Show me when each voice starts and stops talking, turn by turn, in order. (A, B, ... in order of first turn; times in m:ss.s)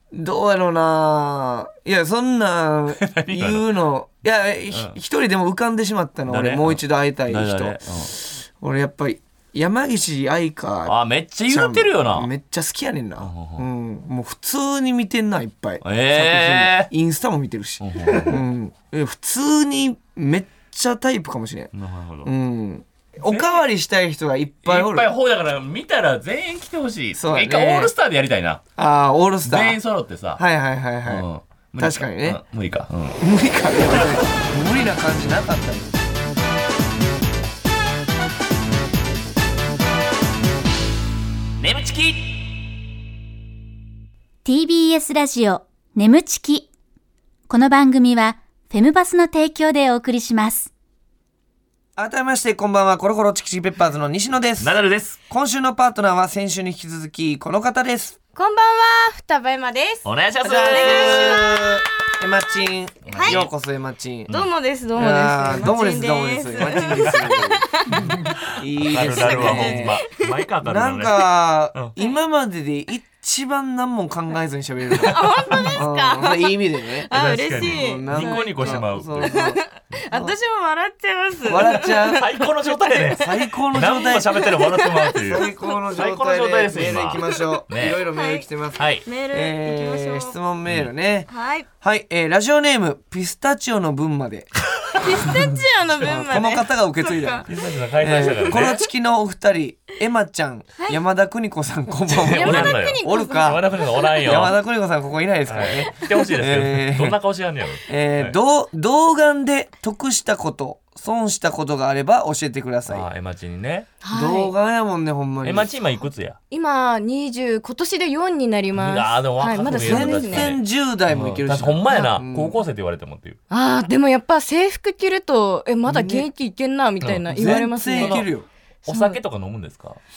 0:00.1-0:11.0 A
0:03.0-0:03.7 B
0:04.7-0:05.0 B
0:06.3-0:08.1 B
0:10.9-0:12.3 B
0:11.5-0:21.7 A
0:13.2-0:13.7 B
0:15.8-0:16.9 B
0:17.8-0:18.4 B
0:21.7-0:22.3 B
0:22.2-0:25.1 A
0:23.2-0:23.5 B
0:24.6-0:28.6 B
0:27.2-0:27.9 A
0:28.8-0:29.8 A
0:29.5-0:30.4 B
0:30.4-0:31.3 A
0:31.1-0:33.2 B
0:31.8-0:32.4 A
0:33.2-0:36.0 A
0:41.6-0:42.4 B
0:44.4-0:46.7 C
0:47.5-0:50.7 C
0:52.0-0:54.8 A
0:54.6-0:55.2 B
0:55.3-0:58.2 A
0:58.4-1:01.6 D
1:00.0-1:01.5 B
1:00.4-1:04.3 A
1:03.0-1:03.5 B
1:03.2-1:03.4 D
1:04.3-1:08.3 D
1:05.0-1:10.0 A
1:08.8-1:11.9 B
1:09.0-1:10.2 D
1:10.6-1:20.4 A
1:15.0-1:23.2 D
1:17.1-1:19.4 B
1:21.4-1:22.3 A
1:22.1-1:28.0 B
1:23.2-1:24.4 A
1:24.3-1:25.5 D
1:25.2-1:31.3 A
1:27.5-1:28.4 D
1:28.8-1:29.0 B
1:29.0-1:30.4 D
1:31.3-1:31.7 D
1:31.8-1:34.5 A
1:35.0-1:37.5 D
1:35.2-1:35.5 A
1:36.0-1:43.7 A
1:37.5-1:38.8 B
1:38.4-1:38.7 D
1:42.1-1:44.6 B
1:42.2-1:44.4 D
1:44.2-1:47.2 A
1:45.5-1:48.4 B
1:47.9-1:53.1 A
1:52.9-1:53.9 B
1:54.0-1:54.5 D
1:54.1-1:55.7 A
1:55.4-1:56.4 B
1:56.5-2:00.5 D
1:58.8-2:03.4 B
1:59.7-2:02.6 A
2:03.5-2:08.2 D
2:05.9-2:06.3 A
2:07.0-2:08.3 B
2:07.3-2:08.5 A
2:08.8-2:10.0 B
2:08.9-2:09.2 D